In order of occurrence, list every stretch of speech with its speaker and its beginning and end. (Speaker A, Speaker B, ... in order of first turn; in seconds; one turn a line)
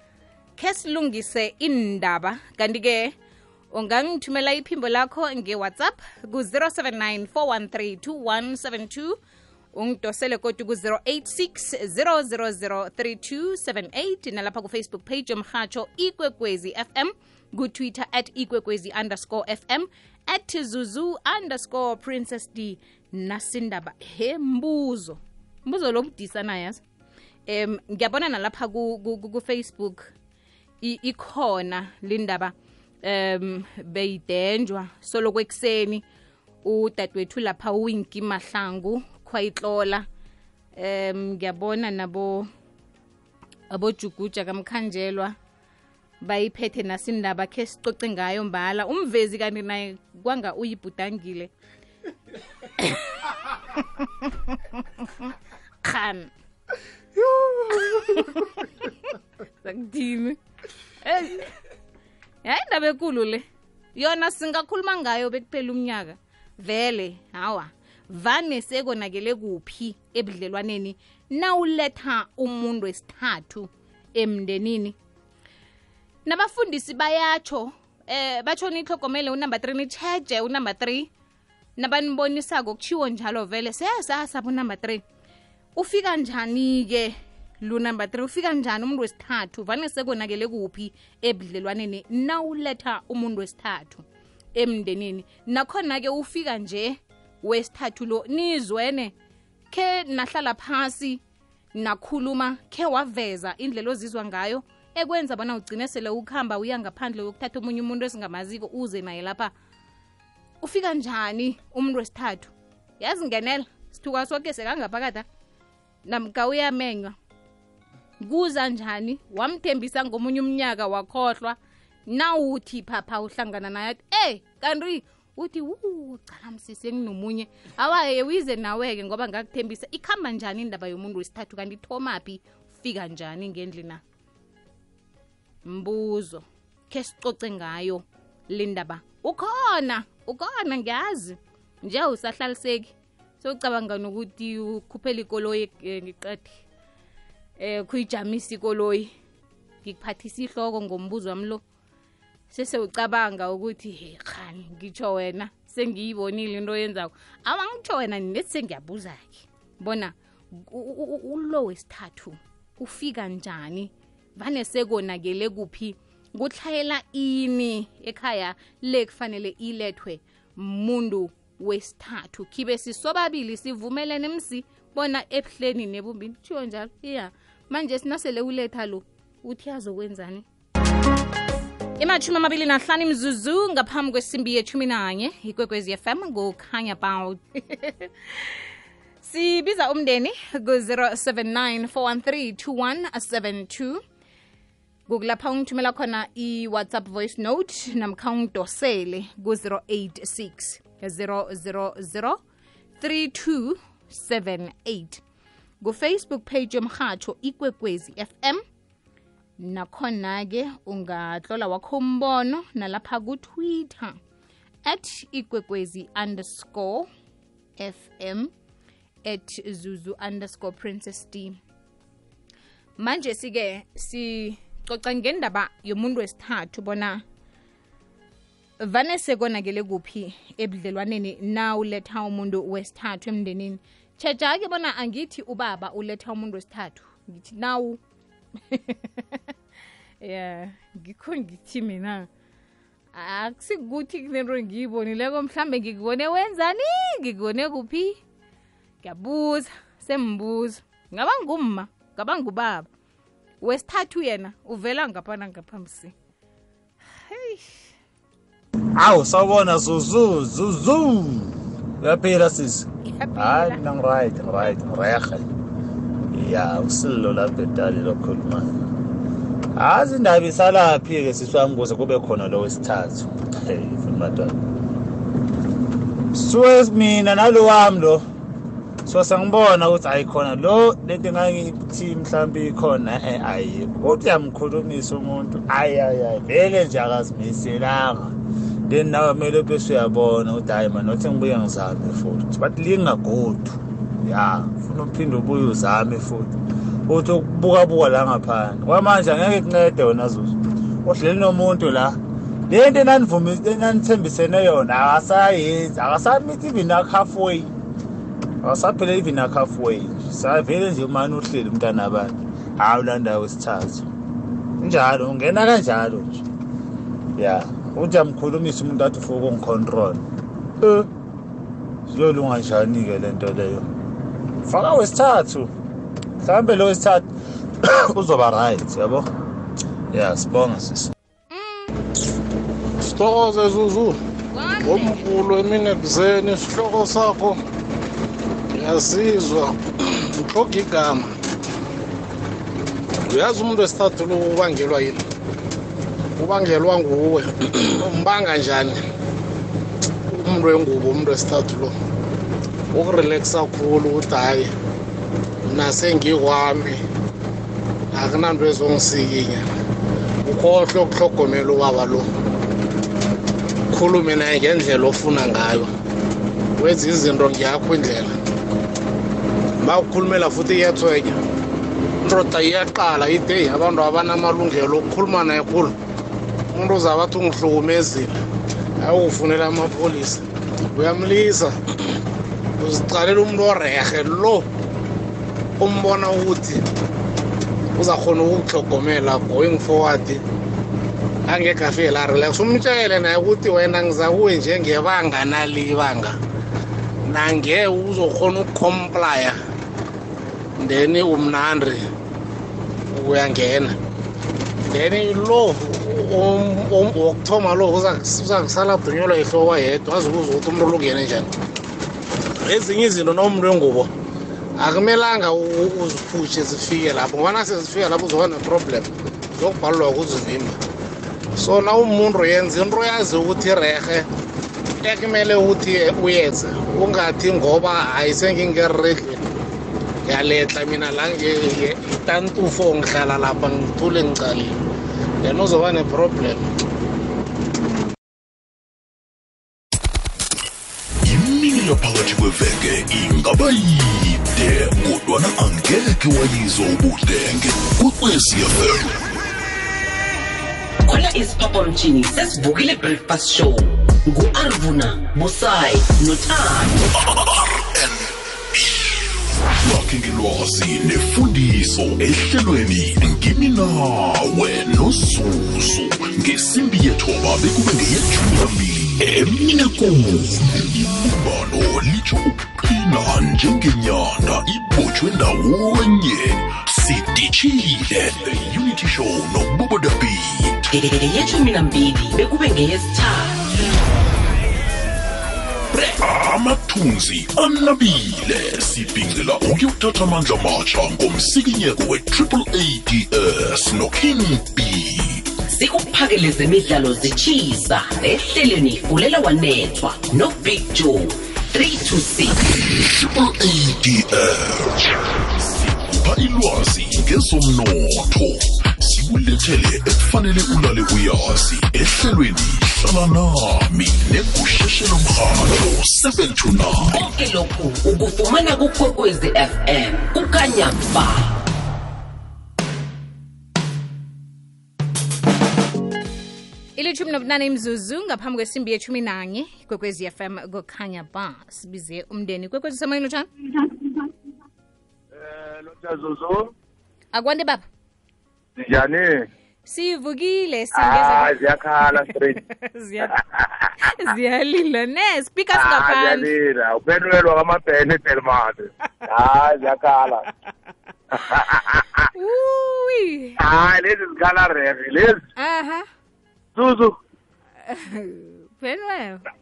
Speaker A: 0.6-3.1
Speaker A: 3.7-9.2
Speaker A: 9.8-26.8
Speaker A: 27.5-30.1
Speaker A: 30.8-36.0
Speaker A: 36.6-40.1
Speaker A: 40.8-42.5
Speaker A: 43.7-45.3
Speaker A: 46.2-51.5
Speaker A: 52.6-56.3
Speaker A: 57.7-60.4
Speaker A: 61.0-61.5
Speaker A: 62.4-63.4
Speaker A: 64.0-75.0
Speaker A: 76.3-81.1
Speaker A: 81.8-85.0
Speaker A: 85.8-99.1
Speaker A: 99.7-101.2
Speaker A: 101.7-109.5
Speaker A: 110.6-115.3
Speaker A: 116.1-117.2
Speaker A: 118.2-134.0
Speaker A: 135.7-146.6
Speaker A: 147.6-149.1
Speaker A: 149.8-151.6
Speaker A: 152.5-180.5
Speaker A: 182.0-188.6
Speaker A: 189.2-194.0
Speaker A: 195.1-202.4
Speaker A: 203.0-205.2
Speaker A: 205.8-208.6
Speaker A: 209.6-214.2
Speaker A: 214.8-217.1
Speaker A: 217.8-218.5
Speaker A: 219.2-221.6
Speaker A: 223.0-227.2
Speaker A: 228.8-238.0
Speaker A: 238.7-239.4
Speaker A: 240.2-242.3
Speaker A: 243.1-248.2
Speaker A: 249.0-252.9
Speaker A: 253.6-256.1
Speaker A: 257.1-257.8
Speaker B: 259.0-265.4
Speaker A: 263.1-263.8
Speaker B: 266.3-268.8
Speaker B: 269.8-274.6
Speaker B: 276.3-278.2
Speaker B: 279.1-288.3
Speaker B: 288.9-296.5
Speaker B: 297.1-307.7
Speaker B: 308.6-314.1
Speaker B: 314.8-316.4
Speaker B: 317.4-320.2
Speaker B: 320.8-321.1
Speaker B: 322.1-323.9
Speaker B: 324.6-325.7
Speaker B: 326.4-327.3
Speaker B: 327.8-329.3
Speaker B: 330.1-331.1
Speaker A: 331.5-332.0
Speaker C: 333.0-334.2
Speaker A: 334.5-335.3
Speaker C: 334.8-337.6
Speaker C: 338.7-341.4
Speaker C: 343.3-345.2
Speaker C: 346.4-349.0
Speaker C: 350.3-351.9
Speaker C: 352.9-354.7
Speaker C: 355.7-357.0
Speaker C: 358.1-359.6
Speaker C: 360.4-362.3
Speaker C: 363.9-365.9
Speaker C: 366.8-368.4
Speaker C: 369.8-371.4
Speaker C: 372.2-375.9
Speaker C: 376.7-378.4
Speaker C: 379.0-382.2
Speaker C: 382.8-384.7
Speaker C: 385.8-386.8
Speaker C: 388.0-390.4
Speaker C: 391.5-396.4
Speaker C: 397.3-399.6
Speaker C: 400.8-402.0
Speaker C: 403.1-404.0
Speaker C: 404.9-411.5
Speaker C: 412.6-414.1
Speaker C: 414.8-420.8
Speaker C: 421.6-424.3
Speaker C: 425.0-429.5
Speaker C: 430.3-434.8
Speaker C: 435.4-436.7
Speaker D: 441.2-449.1
Speaker E: 451.1-457.0
Speaker D: 457.2-459.2
Speaker D: 459.8-480.9
Speaker E: 480.9-483.9
Speaker E: 485.9-486.2
Speaker D: 486.2-495.5
Speaker E: 495.7-502.6
Speaker D: 502.9-505.1
Speaker D: 505.6-517.2
Speaker E: 517.1-521.5
Speaker A: 527.0-533.5
Speaker F: 535.3-536.7
Speaker A: 537.3-537.9
Speaker F: 538.8-539.4
Speaker A: 539.9-543.4
Speaker F: 541.0-542.6
Speaker F: 543.3-543.7
Speaker A: 544.0-546.5
Speaker F: 545.7-550.5
Speaker F: 551.3-552.3
Speaker A: 552.3-553.6
Speaker F: 553.6-555.5
Speaker A: 555.6-556.1
Speaker F: 556.8-557.1
Speaker A: 557.9-559.4